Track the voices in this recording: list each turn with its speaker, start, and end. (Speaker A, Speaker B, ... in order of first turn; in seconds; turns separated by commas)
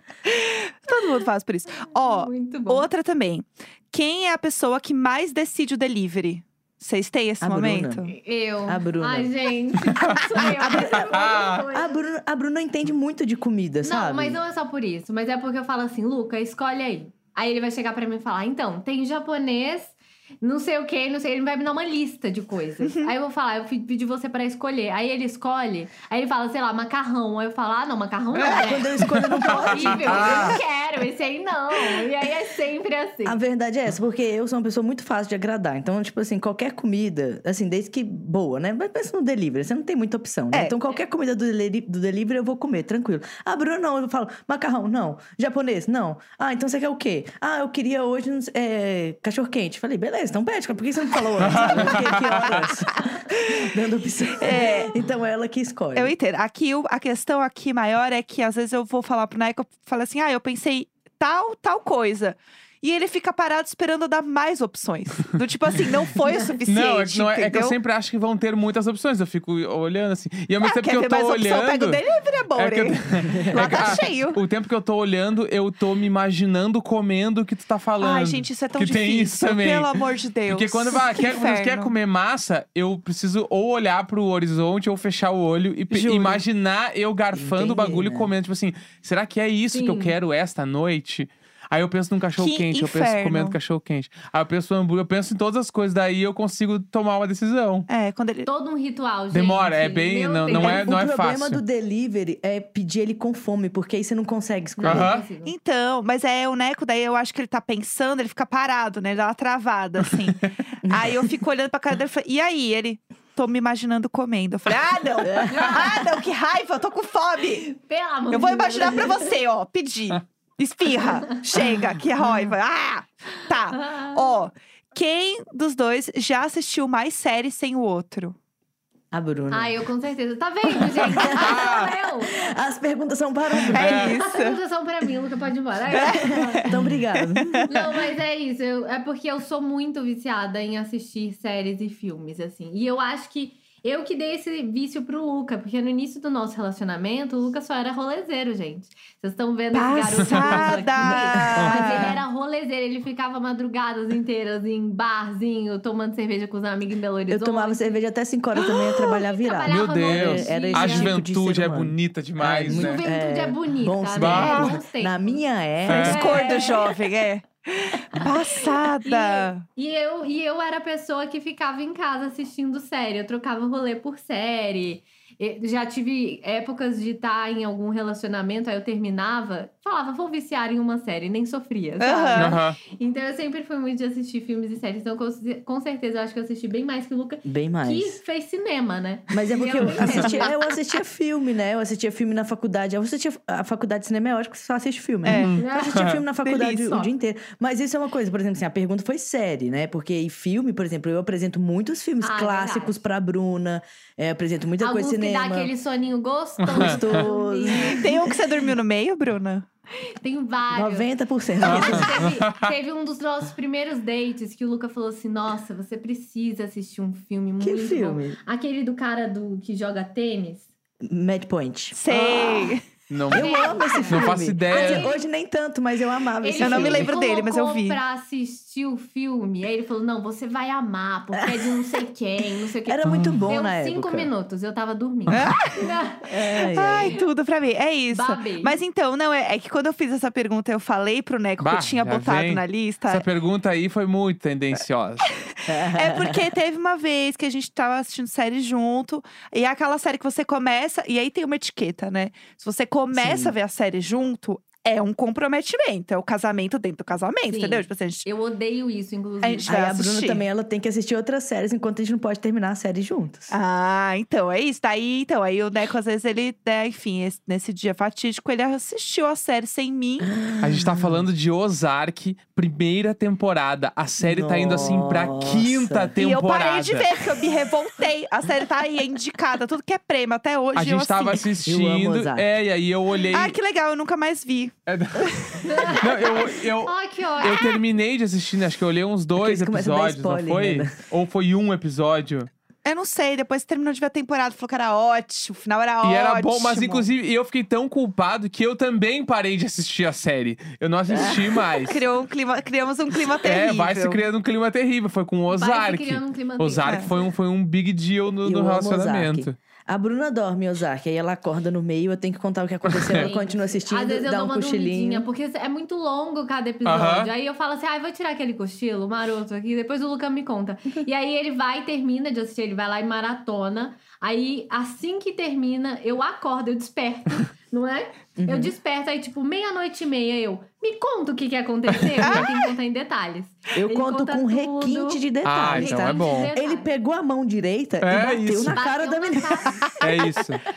Speaker A: 0.3-8.1, Speaker B: 1.9-2.9, Speaker C: 7.4-8.1, Speaker B: 8.1-12.0, Speaker C: 8.7-9.3, Speaker D: 10.1-11.7, Speaker A: 10.6-10.9, Speaker C: 10.7-11.0, Speaker C: 11.7-14.4, Speaker B: 13.8-33.4, Speaker A: 22.8-23.1, Speaker C: 28.4-30.6, Speaker D: 29.0-30.6, Speaker C: 33.2-56.1, Speaker A: 40.5-40.8, Speaker D: 51.4-52.7, Speaker A: 52.1-52.7, Speaker A: 54.4-55.0, Speaker A: 56.0-67.8, Speaker D: 66.7-72.0, Speaker A: 70.6-74.4, Speaker D: 72.5-97.9, Speaker C: 73.3-74.0, Speaker A: 78.0-81.9, Speaker A: 85.9-86.4, Speaker C: 87.3-88.3, Speaker B: 89.7-90.2, Speaker A: 92.4-93.6, Speaker A: 97.9-98.5, Speaker B: 98.5-100.9, Speaker D: 99.3-101.6, Speaker C: 100.5-105.1, Speaker B: 104.8-105.5, Speaker D: 104.8-105.3, Speaker A: 105.4-117.7, Speaker C: 110.8-111.2, Speaker C: 115.2-116.0, Speaker B: 115.5-115.8, Speaker B: 117.8-119.3, Speaker A: 118.3-128.3, Speaker B: 123.8-124.2, Speaker C: 129.1-129.8, Speaker B: 129.5-132.4, Speaker A: 131.0-131.3, Speaker C: 131.1-131.7, Speaker D: 131.4-131.9, Speaker C: 132.2-134.1, Speaker A: 133.7-134.6, Speaker D: 133.7-134.1, Speaker B: 134.1-136.7, Speaker A: 135.9-137.7, Speaker C: 136.2-137.8, Speaker B: 137.7-157.9, Speaker A: 149.7-152.2, Speaker D: 150.2-150.7, Speaker C: 151.0-152.2, Speaker C: 157.3-166.8, Speaker A: 158.6-159.2, Speaker B: 159.4-161.2, Speaker D: 159.7-163.0, Speaker B: 162.7-165.4, Speaker D: 164.2-164.8, Speaker D: 165.9-166.2, Speaker A: 165.9-169.6, Speaker B: 166.0-166.9, Speaker B: 169.1-190.7, Speaker A: 182.0-182.6, Speaker D: 182.4-182.8, Speaker C: 187.4-188.2, Speaker C: 189.3-205.7, Speaker D: 189.8-190.3, Speaker A: 195.2-195.5, Speaker D: 195.3-196.2, Speaker B: 195.6-197.1, Speaker B: 202.2-203.0, Speaker B: 204.8-208.1, Speaker D: 206.6-207.2, Speaker C: 206.7-208.4, Speaker A: 207.9-209.7, Speaker B: 210.2-220.7, Speaker C: 210.7-212.3, Speaker D: 211.7-212.7, Speaker C: 217.6-218.4, Speaker C: 221.0-222.8, Speaker A: 221.9-222.8, Speaker D: 223.1-225.1, Speaker C: 223.3-227.2, Speaker B: 223.3-225.2, Speaker B: 226.4-237.3, Speaker A: 226.6-228.0, Speaker C: 231.4-231.8, Speaker C: 232.8-234.3, Speaker D: 233.0-233.4, Speaker A: 235.3-235.8, Speaker C: 236.2-237.2, Speaker A: 236.7-243.2, Speaker B: 238.1-238.8, Speaker D: 241.6-245.3, Speaker A: 245.3-258.3, Speaker C: 245.7-246.5, Speaker C: 253.1-253.6, Speaker B: 257.5-259.7, Speaker A: 259.4-260.4, Speaker C: 259.7-263.5, Speaker A: 263.5-270.3, Speaker C: 270.3-271.3, Speaker D: 270.6-277.1, Speaker C: 274.2-276.1, Speaker A: 276.2-281.5, Speaker D: 280.8-283.6, Speaker C: 281.6-282.5, Speaker A: 283.2-285.5, Speaker D: 284.9-292.5, Speaker B: 285.6-287.8, Speaker C: 289.4-290.9, Speaker A: 292.9-297.1, Speaker D: 296.0-302.0, Speaker C: 301.1-301.5, Speaker A: 301.2-304.2, Speaker D: 303.4-309.6, Speaker B: 305.5-307.3, Speaker A: 306.8-307.1, Speaker C: 308.4-315.3, Speaker D: 312.9-313.3, Speaker B: 313.1-336.9, Speaker D: 316.9-317.3, Speaker C: 328.4-328.7, Speaker A: 332.2-332.5, Speaker C: 333.8-339.9, Speaker D: 335.4-336.5, Speaker D: 338.0-338.8, Speaker B: 338.7-340.3, Speaker D: 340.0-340.6